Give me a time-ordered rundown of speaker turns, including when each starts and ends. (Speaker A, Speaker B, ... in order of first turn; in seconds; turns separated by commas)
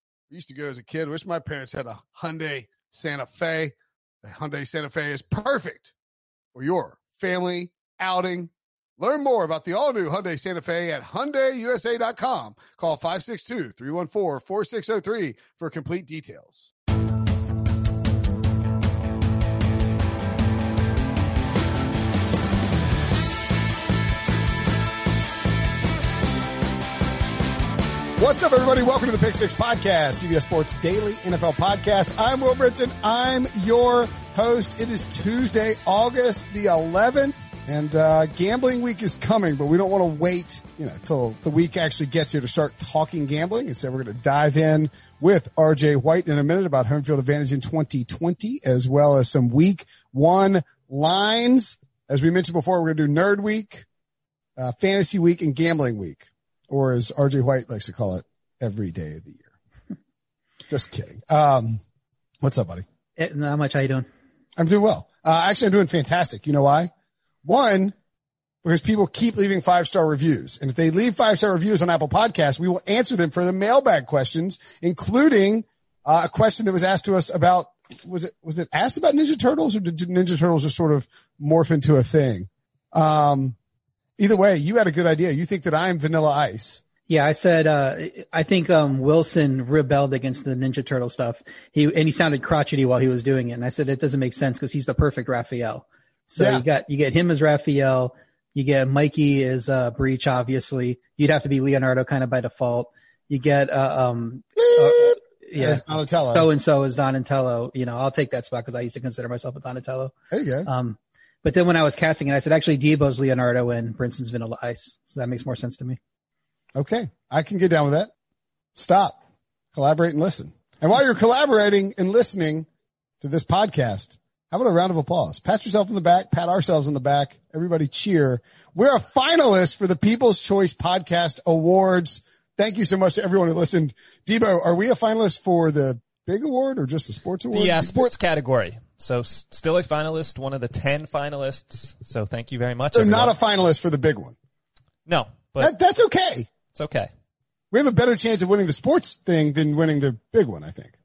Speaker A: 0.3-5.9, Speaker A: 6.5-16.7, Speaker A: 28.2-53.9, Speaker A: 54.6-59.5, Speaker A: 60.7-61.8, Speaker A: 62.4-62.8, Speaker B: 63.2-64.1, Speaker A: 64.6-66.9, Speaker A: 67.4-67.9, Speaker A: 68.6-83.5, Speaker A: 84.2-86.8, Speaker B: 87.1-110.1, Speaker A: 96.4-96.6, Speaker A: 104.6-106.5, Speaker A: 110.3-110.7, Speaker B: 110.6-116.0, Speaker A: 116.7-118.1, Speaker A: 118.8-119.2, Speaker A: 119.7-122.7, Speaker A: 123.2-138.0, Speaker C: 137.5-143.3, Speaker A: 142.9-144.3, Speaker C: 145.1-145.7, Speaker A: 145.6-146.5, Speaker C: 146.7-147.1, Speaker A: 147.7-150.9